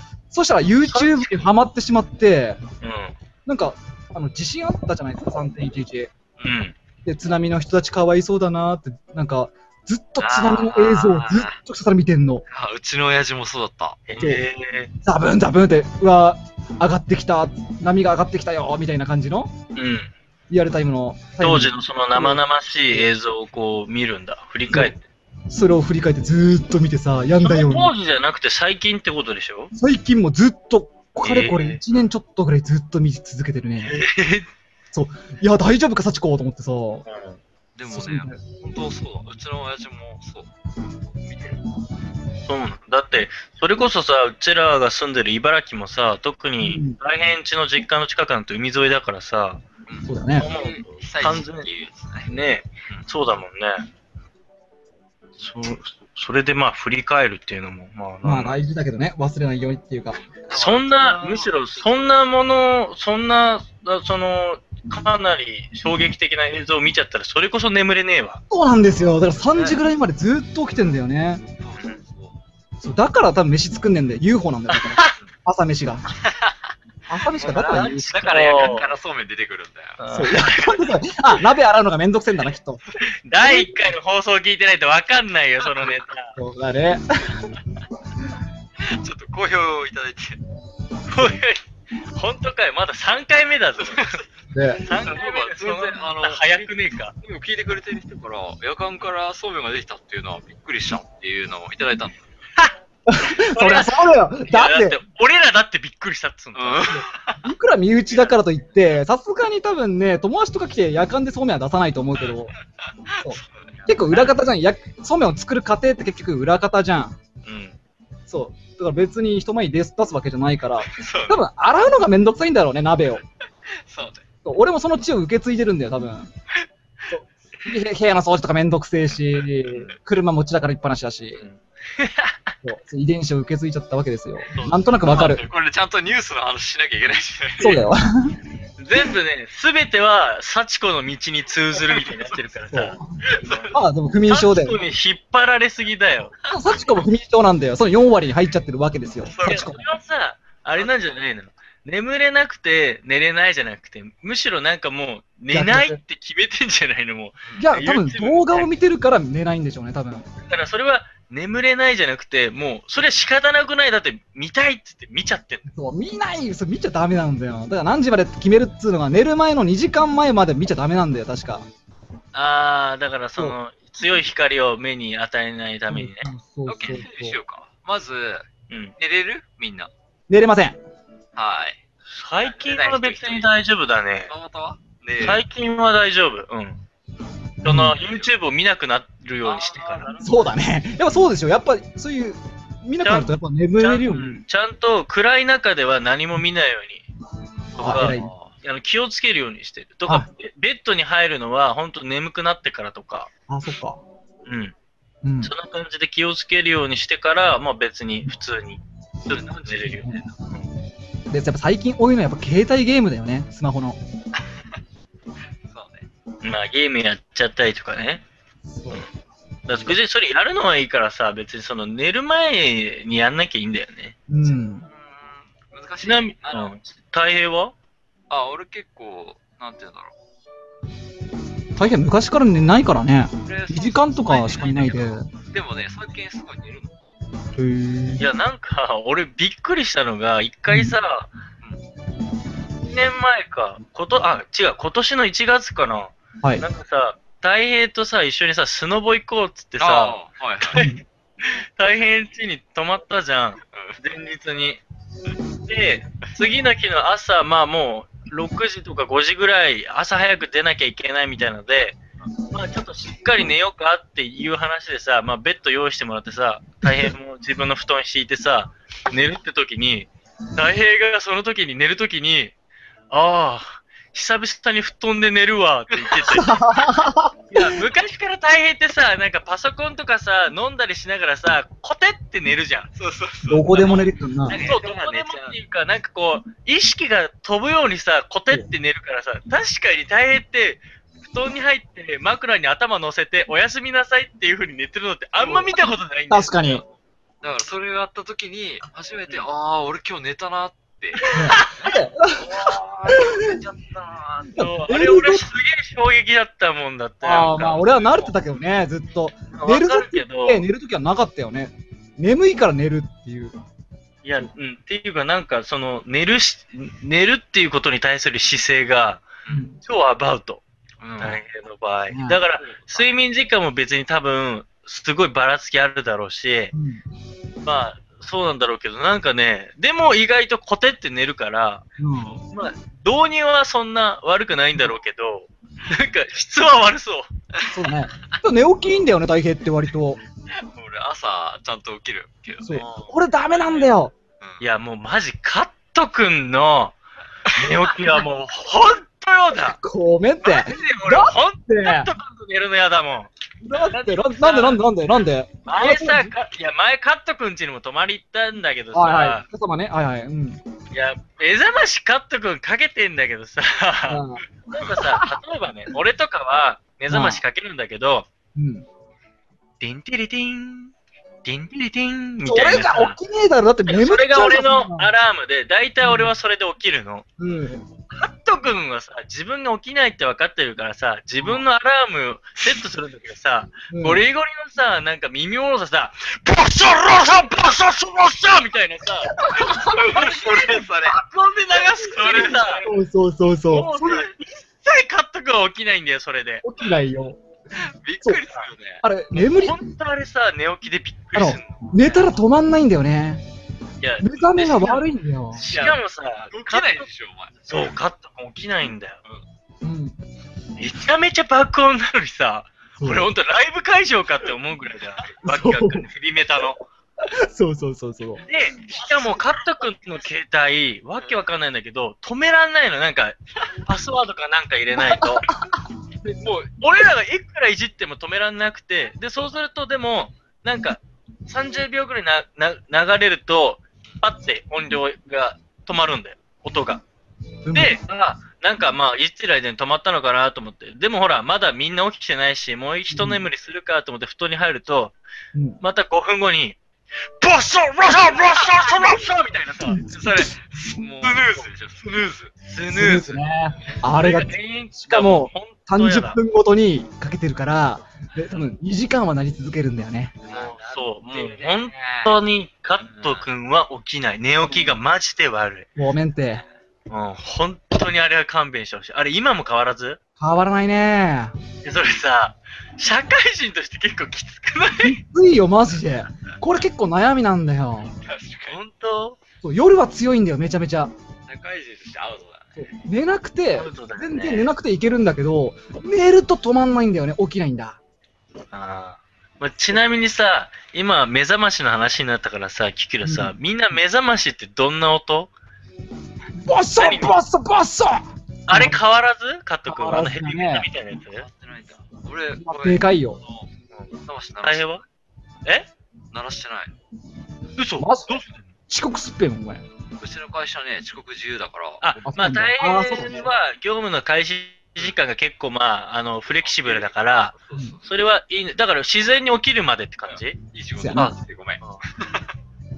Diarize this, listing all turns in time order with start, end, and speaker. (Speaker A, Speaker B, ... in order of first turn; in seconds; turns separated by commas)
Speaker A: 0.3-2.6, Speaker B: 0.9-1.5, Speaker B: 2.8-3.1, Speaker A: 3.5-6.1, Speaker B: 6.4-6.7, Speaker A: 7.0-12.4, Speaker B: 10.2-11.4, Speaker C: 11.1-11.6, Speaker C: 12.5-14.0, Speaker B: 14.1-14.9, Speaker A: 15.0-19.5, Speaker B: 19.8-20.1, Speaker A: 20.5-23.1, Speaker B: 21.4-25.0, Speaker A: 24.7-24.9, Speaker A: 25.5-27.9, Speaker B: 27.4-29.7, Speaker A: 29.7-34.0, Speaker B: 31.2-31.8, Speaker B: 33.8-34.5, Speaker A: 34.9-37.0, Speaker B: 37.1-37.4, Speaker C: 37.8-40.5, Speaker A: 37.9-38.4, Speaker B: 42.5-49.6, Speaker A: 46.6-47.0, Speaker C: 49.9-52.3, Speaker A: 50.1-50.5, Speaker B: 50.4-51.7, Speaker B: 52.3-53.9, Speaker B: 55.4-58.6, Speaker A: 58.2-60.2, Speaker C: 60.4-61.9, Speaker B: 60.5-68.4, Speaker A: 68.5-71.4, Speaker B: 69.5-69.8, Speaker C: 71.6-72.3, Speaker A: 72.8-76.1, Speaker B: 74.7-75.1, Speaker C: 76.2-76.6, Speaker A: 77.1-78.1, Speaker C: 77.4-80.0, Speaker B: 77.4-78.9, Speaker B: 80.0-81.0, Speaker A: 80.1-82.8, Speaker B: 83.3-86.4, Speaker A: 83.3-83.7, Speaker A: 86.4-87.5, Speaker C: 88.8-90.4, Speaker B: 91.1-94.2, Speaker C: 93.8-94.2, Speaker A: 94.5-94.8, Speaker B: 94.8-97.1, Speaker C: 94.9-96.6, Speaker C: 97.2-102.2, Speaker A: 103.1-105.0, Speaker B: 103.3-107.0, Speaker C: 106.5-107.5, Speaker A: 107.4-112.5, Speaker C: 112.2-114.2, Speaker A: 113.2-117.2, Speaker B: 117.5-117.8, Speaker A: 118.3-123.2, Speaker C: 120.8-121.4, Speaker C: 123.9-124.2, Speaker A: 124.5-126.3, Speaker A: 127.1-131.4, Speaker B: 131.4-132.5, Speaker A: 132.6-135.4, Speaker B: 134.5-135.3, Speaker C: 135.1-137.8, Speaker A: 137.6-138.4, Speaker B: 138.8-143.7, Speaker C: 141.8-142.4, Speaker A: 142.7-143.0, Speaker C: 143.3-143.8, Speaker A: 143.7-144.8, Speaker B: 144.3-146.3, Speaker C: 146.4-147.0, Speaker A: 146.5-149.8, Speaker C: 149.2-149.7, Speaker B: 149.4-158.7, Speaker A: 155.5-156.0, Speaker A: 157.6-160.3, Speaker B: 160.4-165.7, Speaker A: 165.7-171.7, Speaker B: 172.3-176.3, Speaker A: 175.9-177.4, Speaker C: 176.7-179.9, Speaker A: 180.3-180.8, Speaker C: 181.4-181.8, Speaker B: 182.1-184.3, Speaker C: 182.4-183.5, Speaker C: 184.3-185.4, Speaker B: 185.2-186.8, Speaker B: 187.6-190.1, Speaker A: 187.6-188.0, Speaker C: 188.0-188.3, Speaker C: 189.4-190.5, Speaker A: 190.2-194.4, Speaker B: 193.0-197.1, Speaker B: 197.8-203.3, Speaker A: 197.8-198.3, Speaker C: 197.8-198.5, Speaker A: 203.5-204.0, Speaker B: 204.5-204.7, Speaker A: 205.2-205.5, Speaker B: 205.4-210.7, Speaker C: 209.3-210.0, Speaker A: 211.3-214.0, Speaker C: 215.7-216.1, Speaker B: 216.4-218.2, Speaker A: 218.7-219.1, Speaker B: 219.7-224.2, Speaker A: 224.3-224.9, Speaker C: 224.8-226.8, Speaker B: 226.0-227.7, Speaker C: 228.3-230.1, Speaker A: 231.8-235.3, Speaker C: 233.4-237.0, Speaker A: 237.6-238.2, Speaker B: 238.2-241.3, Speaker A: 240.7-240.9, Speaker B: 242.9-254.8, Speaker C: 249.8-250.8, Speaker A: 250.8-251.0, Speaker C: 253.7-254.0, Speaker B: 255.7-262.0, Speaker B: 262.5-272.5, Speaker B: 273.1-276.8, Speaker C: 275.9-276.3, Speaker A: 276.3-277.8, Speaker B: 277.5-282.9, Speaker C: 282.9-285.6, Speaker A: 283.5-284.6, Speaker B: 284.5-296.8, Speaker A: 295.4-295.8, Speaker A: 296.3-296.8, Speaker C: 297.4-304.5, Speaker B: 301.2-301.7, Speaker A: 301.3-303.6, Speaker B: 304.4-308.2, Speaker A: 304.6-305.5, Speaker A: 307.2-313.6, Speaker B: 309.5-310.7, Speaker B: 314.2-319.2, Speaker A: 319.5-319.8, Speaker B: 319.8-320.6, Speaker C: 321.0-321.4, Speaker B: 321.2-326.7, Speaker A: 322.1-322.4, Speaker C: 322.6-323.1, Speaker A: 326.7-327.0, Speaker B: 327.6-331.9, Speaker A: 332.0-332.4, Speaker B: 332.4-337.3, Speaker A: 337.7-340.2, Speaker C: 340.5-342.7, Speaker A: 342.6-344.1, Speaker B: 342.7-343.9, Speaker B: 344.6-347.0, Speaker C: 347.5-348.0, Speaker B: 347.5-349.8, Speaker A: 349.6-352.1, Speaker B: 350.5-353.3, Speaker A: 353.6-356.3, Speaker B: 353.9-354.8, Speaker B: 355.7-359.4, Speaker A: 358.9-360.6, Speaker B: 360.9-368.3, Speaker A: 364.1-364.4, Speaker A: 365.0-365.4, Speaker A: 367.1-367.4, Speaker A: 368.6-368.9, Speaker B: 369.8-370.9, Speaker B: 371.4-373.2, Speaker A: 372.4-375.1, Speaker B: 373.9-377.3, Speaker A: 376.0-376.3, Speaker A: 377.4-377.9, Speaker B: 378.1-392.9, Speaker A: 383.9-384.2, Speaker A: 389.4-390.0, Speaker C: 389.5-391.2, Speaker C: 391.9-392.9, Speaker A: 392.4-394.3, Speaker B: 393.7-396.6, Speaker A: 396.6-397.4, Speaker C: 397.8-399.0, Speaker A: 399.0-399.8, Speaker B: 399.3-402.3, Speaker A: 401.4-403.4, Speaker B: 404.0-407.1, Speaker A: 404.2-405.6, Speaker C: 405.6-407.9, Speaker B: 407.7-409.2, Speaker A: 409.8-410.2, Speaker B: 410.8-416.8, Speaker A: 413.0-413.3, Speaker A: 415.4-416.1, Speaker A: 417.2-418.4, Speaker B: 418.5-425.5, Speaker C: 418.9-419.4, Speaker A: 425.0-425.8, Speaker B: 426.2-437.0, Speaker A: 437.6-438.0, Speaker B: 437.7-445.2, Speaker A: 443.1-443.4, Speaker A: 445.5-445.8, Speaker B: 445.8-446.8, Speaker B: 447.4-450.5, Speaker C: 450.1-452.5, Speaker B: 451.2-451.7, Speaker B: 452.7-453.4, Speaker A: 452.9-460.4, Speaker B: 454.0-456.4, Speaker C: 460.4-462.4, Speaker B: 460.5-465.9, Speaker C: 463.0-463.5, Speaker A: 464.6-464.9, Speaker A: 466.0-466.6, Speaker B: 467.1-470.2, Speaker A: 470.4-471.6, Speaker B: 471.8-475.2, Speaker A: 475.0-478.1, Speaker C: 478.1-478.8, Speaker B: 478.7-479.4, Speaker A: 479.6-481.1, Speaker C: 481.5-482.9, Speaker A: 482.8-488.0, Speaker B: 483.7-484.7, Speaker B: 488.7-495.5, Speaker A: 493.2-493.5, Speaker A: 496.6-499.0, Speaker B: 497.0-497.4, Speaker B: 498.7-501.5, Speaker A: 499.9-500.9, Speaker C: 501.3-503.7, Speaker A: 502.6-503.4, Speaker B: 503.9-505.0, Speaker C: 504.2-505.0, Speaker C: 506.3-506.9, Speaker B: 507.8-508.6, Speaker A: 508.0-508.4, Speaker A: 508.9-509.9, Speaker C: 510.2-512.2, Speaker B: 512.0-520.6, Speaker A: 512.2-513.5, Speaker C: 516.5-518.0, Speaker C: 520.3-522.5, Speaker A: 521.0-521.3, Speaker B: 521.1-522.0